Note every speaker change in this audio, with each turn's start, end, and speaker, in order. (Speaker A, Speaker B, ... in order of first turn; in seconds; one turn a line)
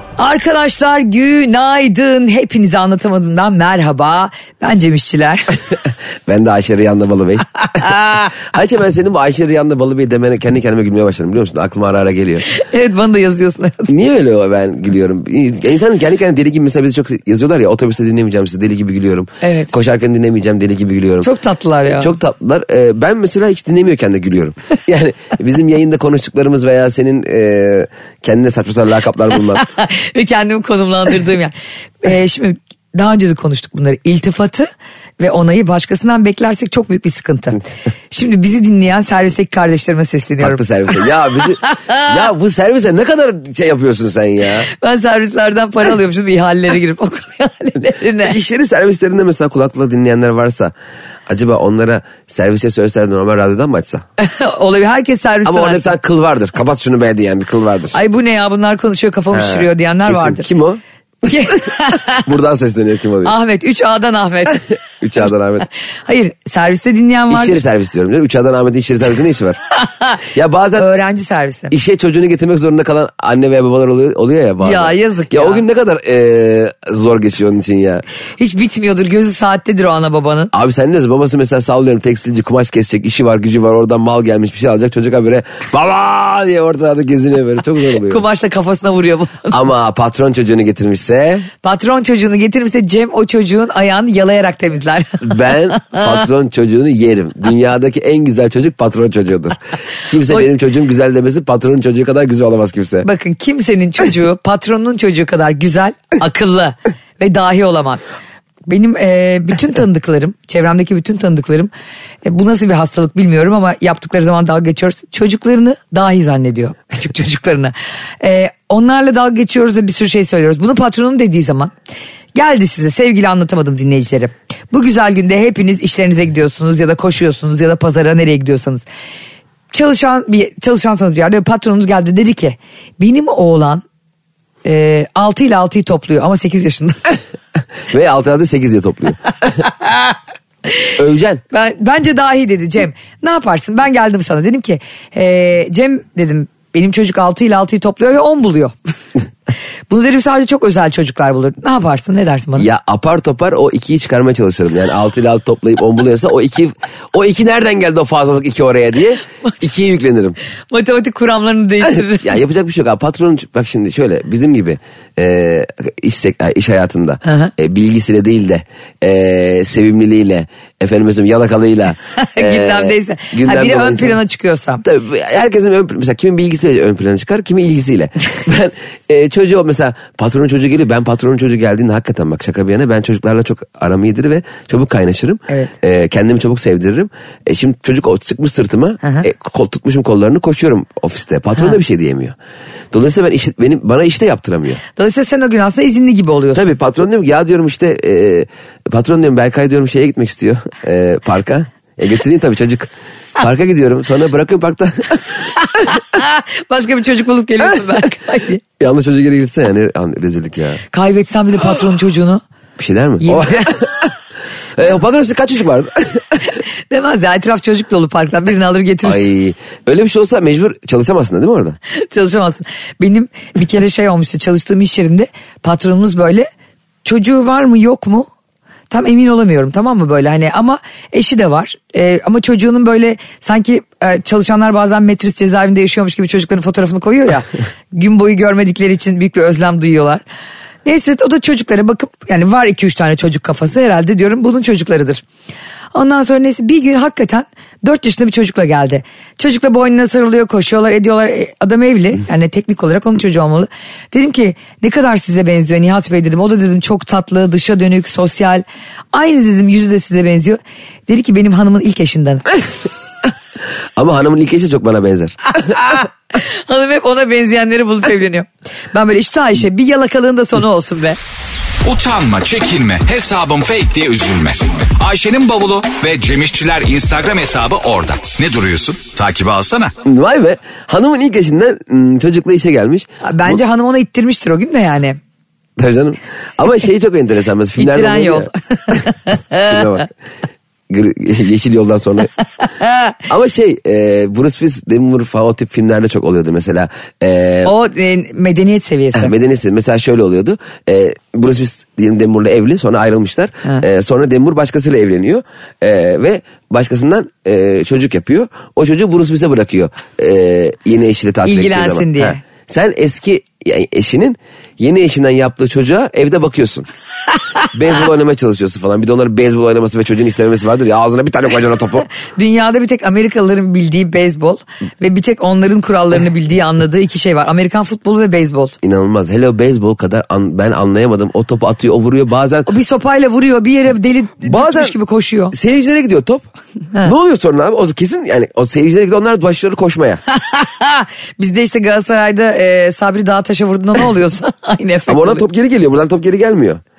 Speaker A: 0.2-5.6
Speaker B: 6.3-12.5
Speaker A: 12.5-13.9
Speaker B: 13.9-21.3
Speaker A: 19.4-19.7
Speaker A: 21.2-22.1
Speaker B: 21.9-29.7
Speaker A: 29.6-40.6
Speaker B: 40.4-44.7
Speaker A: 44.7-48.4
Speaker B: 48.2-50.7
Speaker B: 51.3-54.0
Speaker A: 54.2-55.9
Speaker B: 55.5-58.0
Speaker A: 57.9-60.5
Speaker B: 59.3-61.6
Speaker A: 61.3-62.2
Speaker B: 62.2-63.4
Speaker A: 63.2-64.7
Speaker B: 65.0-65.7
Speaker A: 66.1-67.6
Speaker B: 67.3-69.6
Speaker A: 69.9-70.2
Speaker B: 70.2-71.0
Speaker A: 70.8-71.7
Speaker B: 71.7-78.0
Speaker A: 74.6-75.6
Speaker A: 78.4-80.5
Speaker B: 80.5-88.2
Speaker A: 88.0-89.6
Speaker B: 89.5-91.5
Speaker A: 91.6-96.1
Speaker B: 95.2-103.1
Speaker A: 103.0-108.0
Speaker A: 108.7-111.7
Speaker A: 112.2-121.7
Speaker A: 122.3-128.8
Speaker A: 129.7-133.8
Speaker A: 134.7-137.0
Speaker B: 137.9-139.6
Speaker B: 141.0-141.4
Speaker A: 141.5-148.7
Speaker A: 149.9-152.7
Speaker B: 152.6-160.4
Speaker A: 160.7-162.4
Speaker B: 162.1-174.2
Speaker A: 167.2-167.5
Speaker A: 172.2-174.8
Speaker B: 174.8-192.3
Speaker B: 192.9-194.8
Speaker A: 195.0-196.7
Speaker B: 196.5-205.8
Speaker A: 205.9-208.6
Speaker B: 208.8-210.8
Speaker A: 210.9-212.4
Speaker B: 212.8-214.1
Speaker A: 213.2-213.8
Speaker B: 214.8-216.5
Speaker A: 216.5-219.3
Speaker B: 219.0-221.8
Speaker A: 221.9-226.5
Speaker A: 227.1-228.3
Speaker A: 228.9-240.2
Speaker A: 240.8-245.2
Speaker A: 245.9-262.5
Speaker B: 264.0-265.9
Speaker A: 265.8-271.2
Speaker C: 271.8-279.9
Speaker B: 280.0-283.6
Speaker A: 283.2-285.2
Speaker B: 285.8-289.0
Speaker A: 287.8-289.6
Speaker B: 289.6-290.1
Speaker B: 290.9-292.3
Speaker A: 292.8-293.1
Speaker B: 293.3-297.7
Speaker A: 297.6-299.4
Speaker B: 299.1-316.9
Speaker A: 311.4-312.4
Speaker B: 317.7-322.1
Speaker A: 322.1-328.8
Speaker B: 328.8-332.7
Speaker A: 332.7-335.5
Speaker B: 334.5-334.9
Speaker B: 335.5-336.5
Speaker B: 337.0-340.2
Speaker A: 340.3-345.4
Speaker B: 345.1-346.8